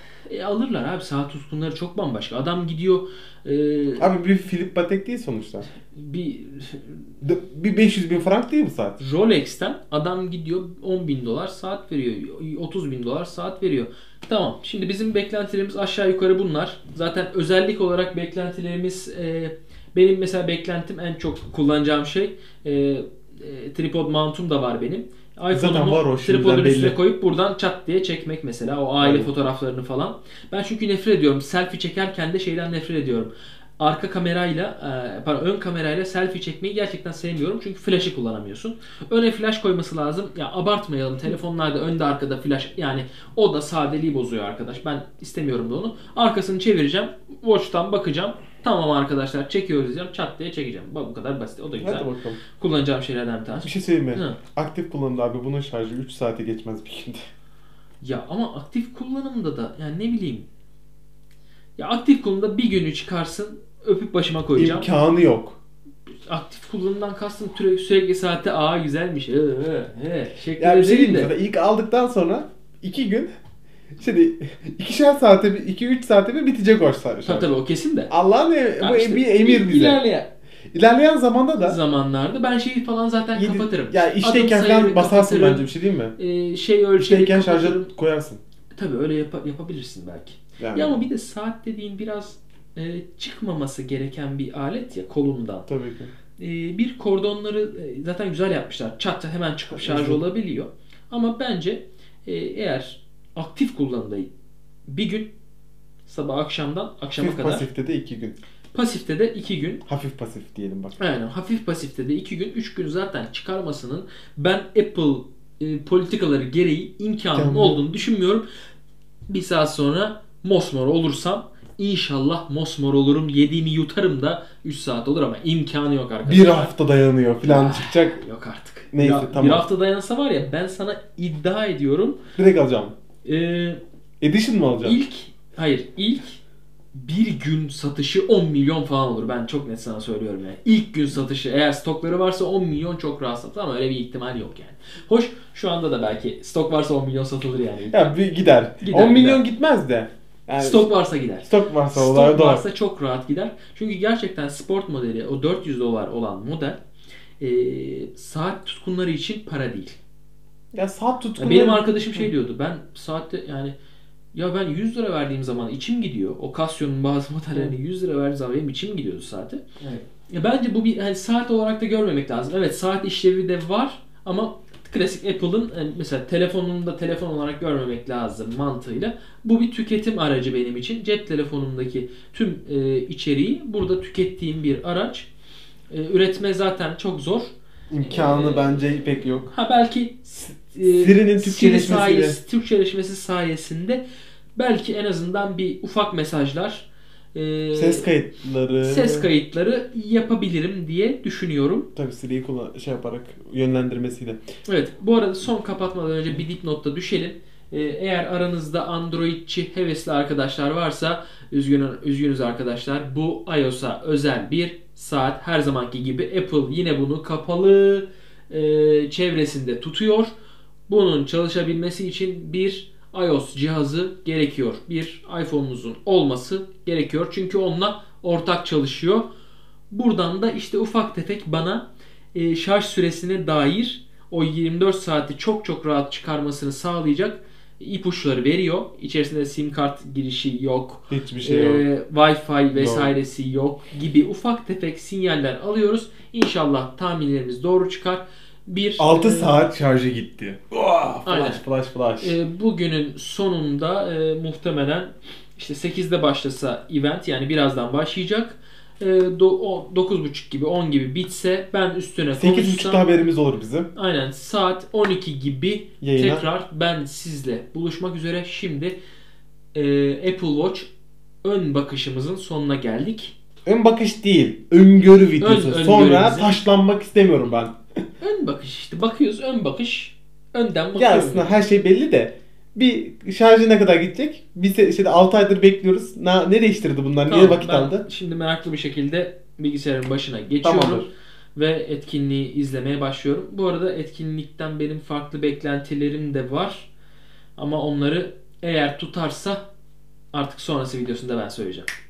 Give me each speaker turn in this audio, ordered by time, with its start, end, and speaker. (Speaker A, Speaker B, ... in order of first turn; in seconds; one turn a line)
Speaker A: 0.3-4.1
Speaker B: 4.0-5.7
Speaker A: 5.9-7.0
Speaker B: 7.2-9.0
Speaker A: 9.0-54.4
Speaker B: 25.5-27.0
Speaker B: 29.0-29.3
Speaker B: 51.8-52.4
Speaker B: 53.6-57.2
Speaker A: 58.0-60.5
Speaker A: 61.8-64.9
Speaker B: 64.6-65.6
Speaker A: 66.3-71.3
Speaker B: 70.6-73.3
Speaker B: 74.0-77.5
Speaker A: 77.2-78.1
Speaker B: 78.1-80.0
Speaker A: 78.8-80.3
Speaker B: 80.7-81.8
Speaker A: 81.6-87.9
Speaker B: 83.3-86.1
Speaker B: 87.0-88.4
Speaker A: 88.8-95.7
Speaker B: 90.6-91.0
Speaker B: 95.7-96.1
Speaker A: 96.4-104.3
Speaker B: 99.7-100.2
Speaker A: 104.9-105.3
Speaker A: 106.1-107.6
Speaker B: 107.2-108.3
Speaker A: 108.7-109.8
Speaker B: 109.9-110.9
Speaker A: 111.0-118.4
Speaker B: 117.3-117.8
Speaker A: 119.3-126.7
Speaker B: 126.2-128.2
Speaker A: 127.4-132.2
Speaker B: 128.9-129.6
Speaker B: 132.4-132.9
Speaker A: 133.2-133.8
Speaker B: 134.2-135.0
Speaker A: 134.8-136.4
Speaker A: 136.9-148.0
Speaker B: 147.9-150.9
Speaker A: 148.8-149.4
Speaker A: 150.6-156.8
Speaker B: 151.4-152.6
Speaker A: 157.4-160.0
Speaker B: 160.7-162.3
Speaker A: 161.4-163.7
Speaker A: 164.3-185.3
Speaker A: 185.9-188.8
Speaker B: 187.9-189.5
Speaker A: 189.5-194.0
Speaker B: 190.8-192.4
Speaker A: 194.6-198.1
Speaker B: 197.7-199.3
Speaker A: 198.8-201.9
Speaker B: 201.9-204.4
Speaker A: 204.7-220.3
Speaker A: 220.9-229.2
Speaker A: 229.9-249.6
Speaker B: 241.1-241.8
Speaker B: 242.7-243.1
Speaker B: 249.0-252.4
Speaker A: 251.2-251.6
Speaker A: 252.2-263.1
Speaker B: 262.3-263.9
Speaker A: 263.9-268.9
Speaker B: 266.0-266.4
Speaker A: 269.7-270.9
Speaker A: 271.4-273.3
Speaker B: 273.6-277.8
Speaker A: 275.4-276.6
Speaker A: 278.2-281.6
Speaker B: 280.9-288.1
Speaker A: 287.3-296.9
Speaker B: 290.6-291.1
Speaker A: 297.6-299.6
Speaker A: 300.3-301.9